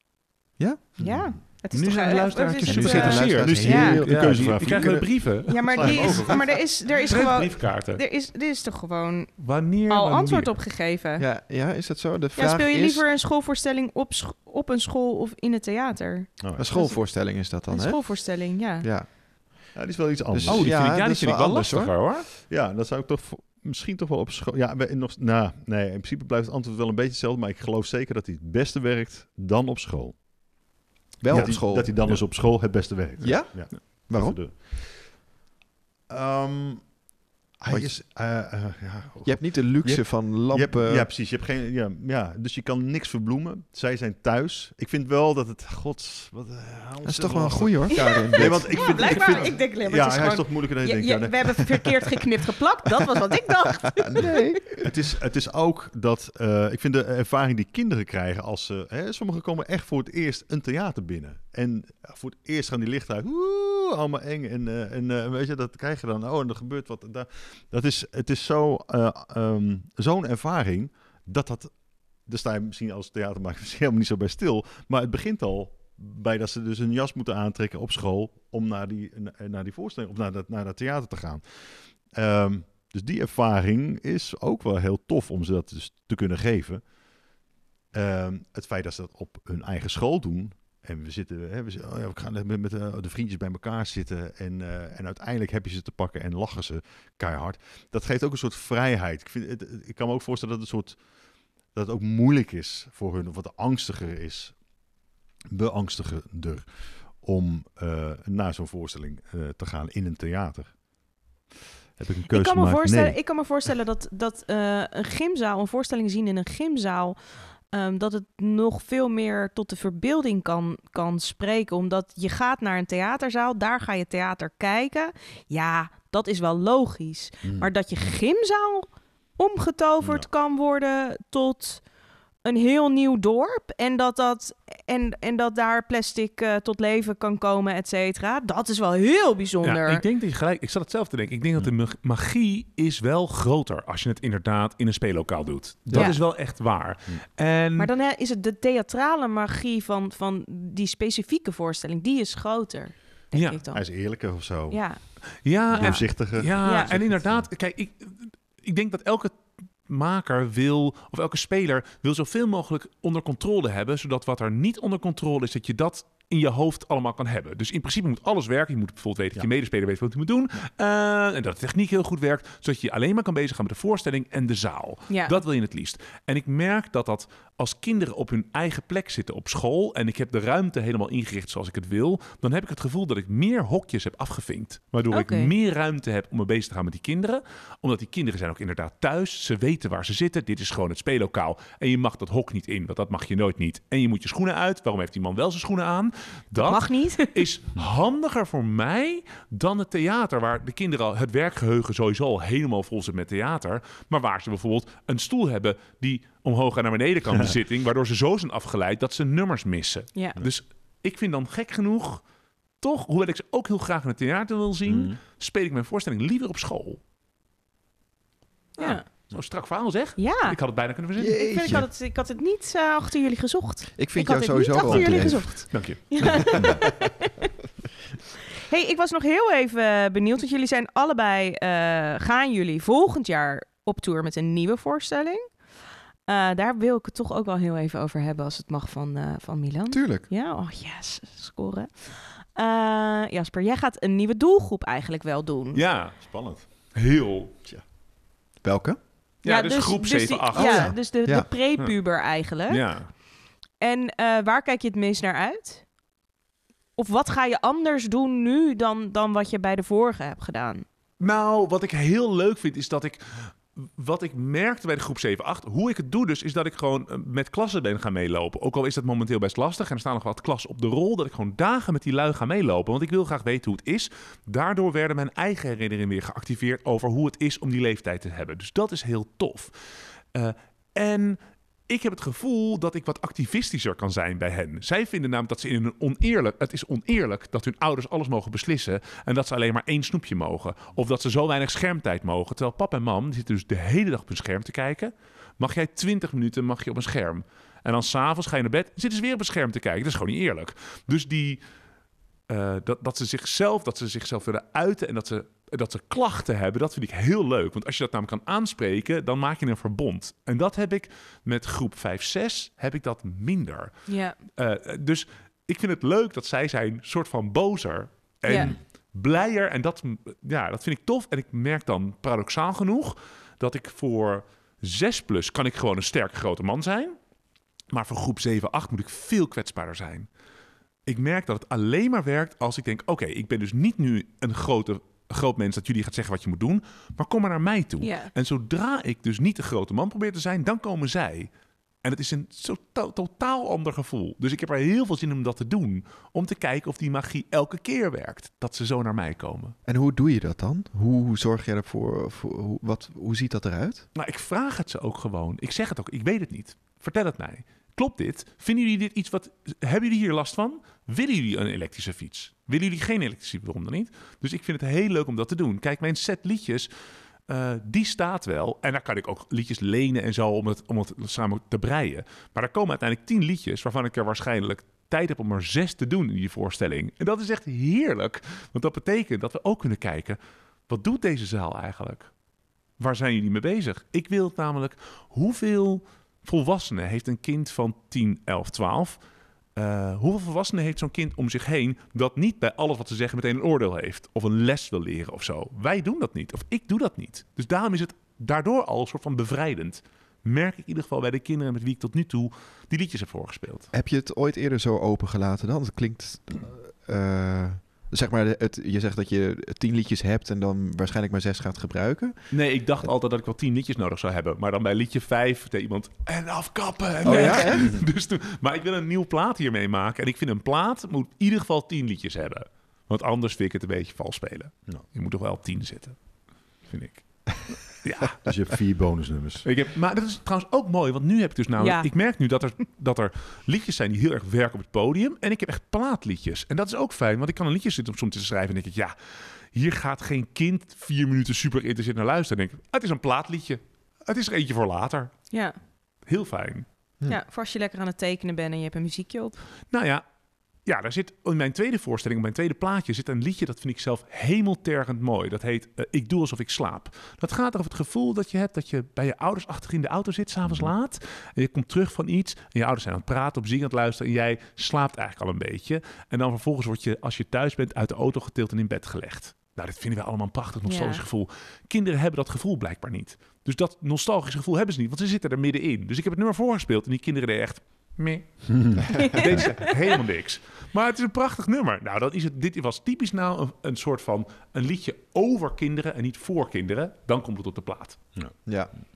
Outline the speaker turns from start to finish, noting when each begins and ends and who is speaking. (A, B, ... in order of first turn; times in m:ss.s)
0:00.6-0:01.0 A
0:01.0-0:04.0 B
0:01.0-0:01.3 C
0:01.7-0:06.2 D
0:02.7-0:04.9 A
0:03.4-0:06.6 C
0:05.4-0:11.3 B
0:06.0-0:06.3 A
0:07.0-0:08.0 D
0:09.4-0:10.6 D
0:11.2-0:13.1 A
0:12.4-0:18.9 B
0:16.4-0:16.8 C
0:16.6-0:19.1 A
0:19.7-0:20.8 C
0:20.3-0:22.0 A
0:20.5-0:22.3 D
0:22.3-0:30.2 C
0:31.2-0:32.6 A
0:31.3-0:32.2 D
0:31.3-0:35.2 C
0:33.2-0:34.4 A
0:36.1-0:37.0 C
0:37.6-0:52.1 C
0:37.7-0:38.0 A
0:39.2-0:41.1 A
0:47.0-0:49.2 A
0:47.9-0:54.3 B
0:54.0-0:54.9 A
0:54.7-1:26.9 C
1:27.9-1:41.0 C
1:41.7-1:44.6 C
1:45.5-1:50.8 C
1:52.0-1:53.2 C
1:52.3-2:11.8 B
2:07.4-2:07.7 C
2:10.0-2:10.3 C
2:12.4-2:20.0 B
2:19.6-2:27.9 D
2:27.8-2:37.0 B
2:33.3-2:33.6 D
2:33.7-2:37.5 C
2:35.4-3:32.3 D
2:55.1-2:55.4 B
3:05.1-3:05.5 B
3:16.6-3:17.4 B
3:32.8-3:37.0 D
3:34.9-3:35.2 C
3:38.8-3:39.0 B
3:38.8-3:41.8 D
3:40.2-3:40.6 B
3:41.2-3:41.9 A
3:41.3-3:47.3 B
3:44.0-3:46.8 A
3:44.8-3:45.4 C
3:45.4-3:46.6 D
3:48.7-4:05.8 B
3:59.9-4:00.3 A
4:05.7-4:07.5 D
4:06.2-4:06.9 C
4:08.6-4:09.0 A
4:09.4-4:11.3 D
4:09.4-4:13.2 B
4:10.5-4:11.5 A
4:12.7-4:13.1 D
4:13.8-4:15.9 B
4:17.0-4:20.8 B
4:21.2-4:39.7 D
4:40.3-5:01.6 D
5:02.5-5:27.2 D
5:14.1-5:14.4 B
5:18.5-5:18.8 B
5:27.9-5:30.3 D
5:31.1-5:49.8 D
5:38.0-5:38.3 B
5:49.9-5:54.1 A
5:54.2-6:06.9 D
6:07.5-6:22.4 D
6:23.0-6:29.2 D
6:29.8-6:43.9 D
6:43.9-6:52.4 A
6:52.5-7:08.7 D
6:57.2-6:57.9 A
6:57.7-6:58.0 C
7:08.4-7:09.7 C
7:09.6-7:19.1 D
7:11.8-7:12.1 B
7:19.7-7:26.9 D
7:25.5-7:25.8 B
7:27.3-7:29.6 B
7:29.9-7:30.2 D
7:30.8-8:08.3 D
7:40.6-7:40.9 C
7:50.8-7:51.2 B
8:08.7-8:08.9 A